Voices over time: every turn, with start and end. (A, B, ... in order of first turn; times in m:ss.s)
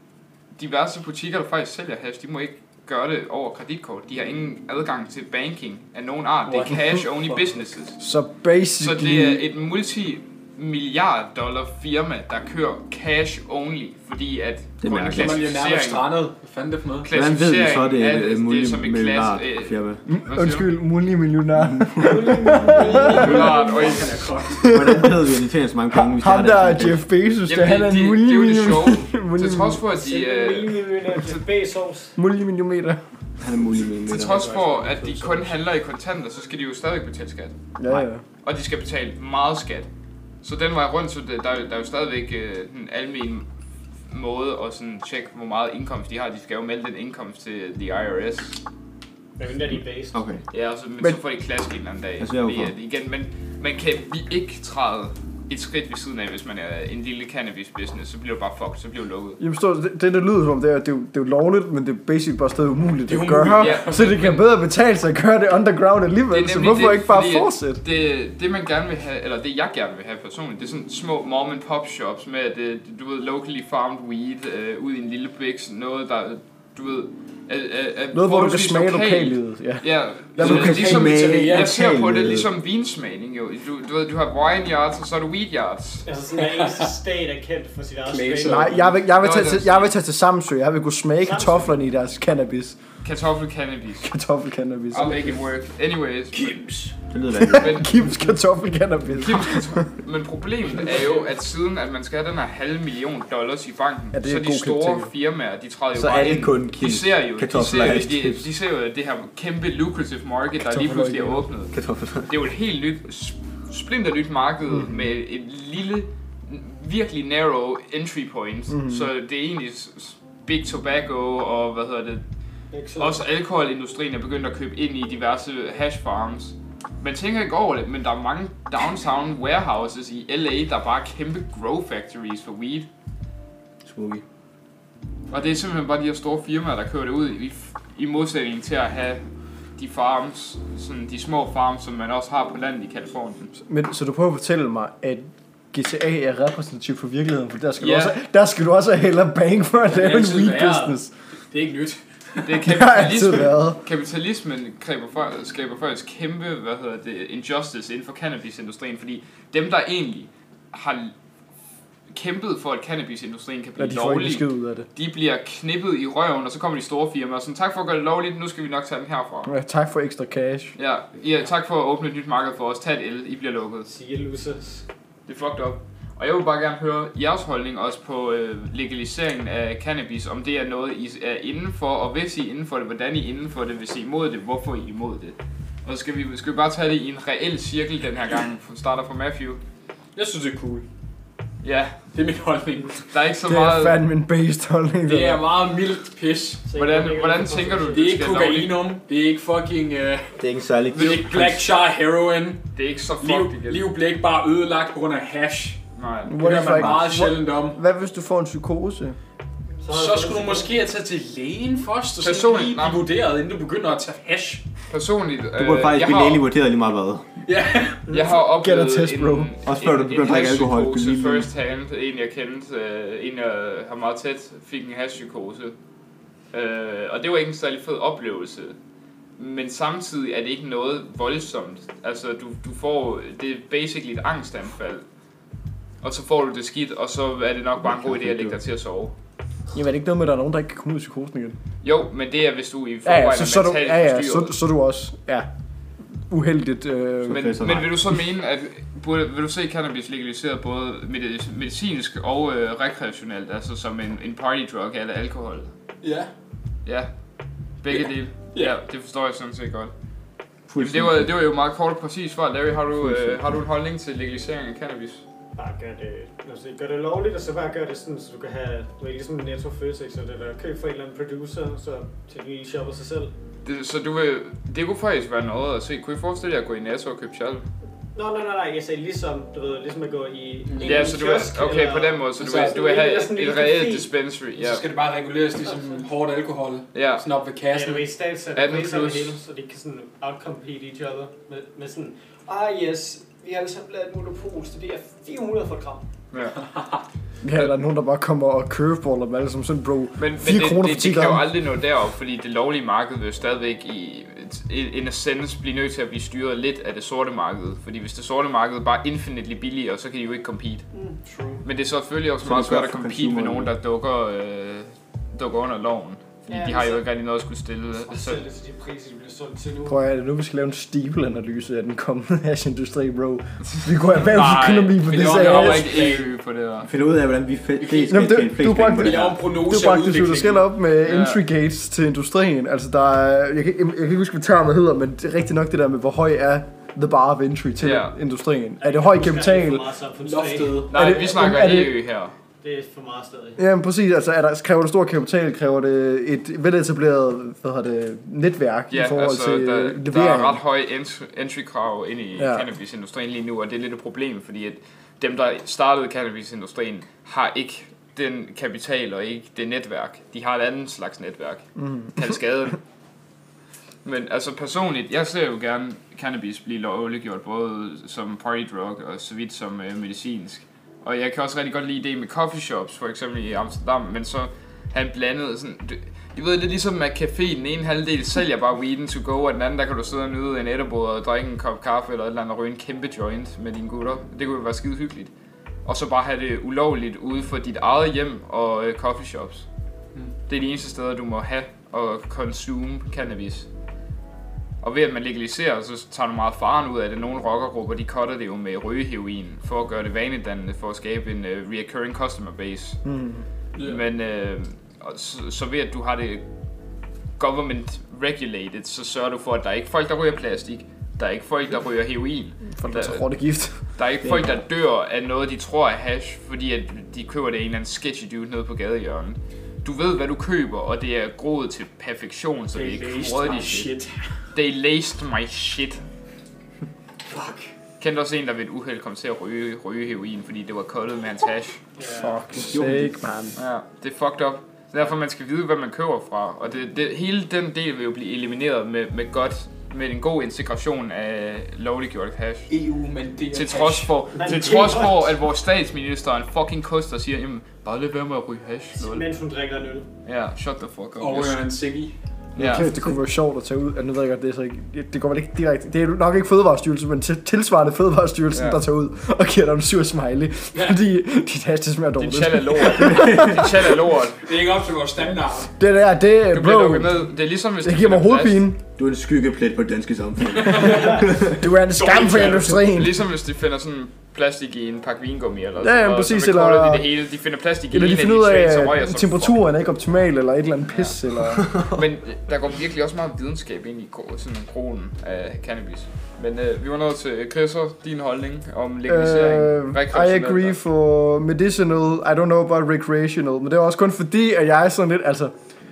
0:00.6-0:08.0 A
0:06.5-0:07.4 B
0:08.0-0:09.4 C
0:08.8-0:16.1 A
0:14.8-0:15.4 D
0:15.1-0:17.1 B
0:17.0-0:20.7 A
0:17.1-0:20.0 D
0:20.1-0:23.5 C
0:21.6-0:22.1 D
0:22.0-0:24.2 E
0:22.7-0:24.8 B
0:23.1-0:24.2 A
0:24.6-0:25.2 C
0:24.6-0:27.0 D
0:25.9-0:29.8 C
0:27.5-0:30.8 A
0:29.9-0:32.2 E
0:32.2-0:33.0 C
0:33.4-0:34.5 D
0:34.1-0:39.9 A
0:34.2-0:35.6 B
0:37.8-0:38.2 C
0:40.4-0:43.5 A
0:44.1-0:48.6 A
0:49.4-0:50.2 E
0:50.1-0:50.4 D
0:50.5-0:59.4 A
0:52.2-0:52.7 D
0:59.4-1:07.8 C
1:03.1-1:04.4 B
1:03.6-1:04.3 A
1:06.3-1:26.0 A
1:18.1-1:20.9 C
1:20.4-1:22.5 D
1:20.4-1:21.7 B
1:26.0-1:28.8 E
1:26.3-1:27.0 B
1:28.1-1:28.9 B
1:28.4-1:32.8 C
1:29.2-1:29.9 A
1:31.2-1:31.8 E
1:33.0-1:34.1 A
1:34.0-1:35.2 C
1:34.9-1:36.6 A
1:35.0-1:35.4 B
1:36.3-1:37.0 B
1:37.1-1:37.8 D
1:37.5-1:37.9 A
1:37.5-1:39.8 C
1:39.2-1:51.7 A
1:40.8-1:41.2 B
1:44.1-1:45.1 C
1:45.9-1:48.5 D
1:50.6-1:51.5 C
1:51.7-1:52.3 D
1:52.2-2:02.2 A
1:58.7-1:59.1 C
2:02.7-2:03.2 E
2:03.0-2:12.9 A
2:13.8-2:14.2 D
2:15.3-2:19.2 A
2:19.8-2:23.5 A
2:23.7-2:31.1 C
2:27.8-2:28.2 A
2:29.9-2:32.6 B
2:32.4-2:41.1 A
2:32.6-2:33.8 C
2:42.1-2:49.5 A
2:43.8-2:44.9 C
2:49.4-2:50.8 C
2:50.8-2:53.9 A
2:53.9-2:54.8 E
2:55.3-3:09.6 A
3:10.2-3:10.8 B
3:11.6-3:11.9 A
3:12.1-3:13.0 B
3:13.1-3:14.0 A
3:13.4-3:15.5 C
3:15.1-3:16.6 B
3:16.6-3:18.1 E
3:16.7-3:18.8 A
3:17.9-3:20.4 B
3:20.4-3:21.3 D
3:20.9-3:21.7 A
3:20.9-3:22.6 B
3:22.8-3:23.9 A
3:23.2-3:25.8 B
3:26.0-3:26.5 A
3:26.2-3:29.2 C
3:26.4-3:27.8 B
3:29.8-3:30.7 E
3:29.9-3:34.6 B
3:32.2-3:33.0 A
3:34.9-3:36.4 A
3:35.6-3:37.3 D
3:37.5-3:38.0 B
3:38.1-3:45.8 A
3:38.4-3:39.5 C
3:39.6-3:41.5 D
3:46.5-3:48.8 A
3:49.4-3:55.0 A
3:56.0-3:59.1 A
3:57.8-3:58.6 D
3:59.7-4:01.6 C
4:01.8-4:04.6 A
4:03.0-4:05.5 C
4:06.3-4:07.5 C
4:07.2-4:08.2 D
4:07.3-4:15.7 A
4:16.0-4:16.3 B
4:16.8-4:17.1 A
4:17.8-4:19.9 A
4:17.9-4:18.8 B
4:20.7-4:21.5 D
4:20.8-4:25.2 A
4:23.0-4:23.4 D
4:25.6-4:33.3 E
4:33.6-4:37.6 A
4:38.1-4:44.1 E
4:40.6-4:41.2 B
4:40.8-4:44.8 A
4:42.4-4:42.8 B
4:44.6-4:48.0 B
4:45.7-4:46.0 E
4:46.9-4:47.2 A
4:47.7-4:56.1 E
4:48.5-4:49.4 A
4:56.3-4:56.6 A
4:57.4-5:01.5 C
5:00.2-5:10.8 A
5:10.9-5:11.6 E
5:11.6-5:18.4 A
5:12.4-5:13.7 D
5:16.5-5:17.0 E
5:18.0-5:20.0 E
5:19.9-5:26.1 C
5:24.2-5:26.9 A
5:25.0-5:26.3 B
5:26.8-5:29.4 D
5:27.8-5:28.2 B
5:28.1-5:39.9 C
5:29.0-5:30.7 B
5:31.0-5:31.4 A
5:37.8-5:38.1 A
5:38.8-5:40.9 E
5:40.2-5:40.9 B
5:40.9-5:42.4 A
5:40.9-5:42.0 C
5:42.6-5:43.6 E
5:43.6-5:50.6 C
5:48.9-6:02.8 A
5:52.4-5:52.6 C
6:01.8-6:02.4 C
6:04.0-6:25.3 A
6:25.8-6:29.6 A
6:30.5-6:33.7 A
6:34.8-6:43.0 A
6:43.0-6:43.4 C
6:43.8-6:46.4 A
6:47.4-6:53.2 A
6:52.8-6:53.8 C
6:54.0-7:03.9 A
6:54.2-6:54.5 D
7:02.7-7:04.3 B
7:04.5-7:06.0 A
7:07.3-7:07.6 E
7:08.0-7:11.8 A
7:12.0-7:12.4 E
7:12.2-7:13.6 C
7:12.7-7:13.1 D
7:13.6-7:22.7 A
7:22.7-7:24.1 B
7:23.5-7:29.2 A
7:24.3-7:25.4 E
7:29.0-7:30.1 E
7:30.2-7:31.6 A
7:31.2-7:32.1 B
7:32.6-7:32.9 A
7:32.7-7:43.7 C
7:38.5-7:38.8 A
7:40.7-7:41.0 B
7:42.2-7:44.4 A
7:43.2-7:43.6 D
7:44.4-7:45.7 B
7:45.8-7:47.3 C
7:46.5-7:48.6 A
7:47.8-7:48.8 C
7:49.0-7:51.6 D
7:50.6-7:51.2 B
7:51.5-7:53.2 C
7:51.9-7:52.8 B
7:52.8-7:59.6 A
7:55.8-7:57.1 C
7:57.9-8:01.7 C
8:01.9-8:10.8 A
8:09.1-8:15.5 C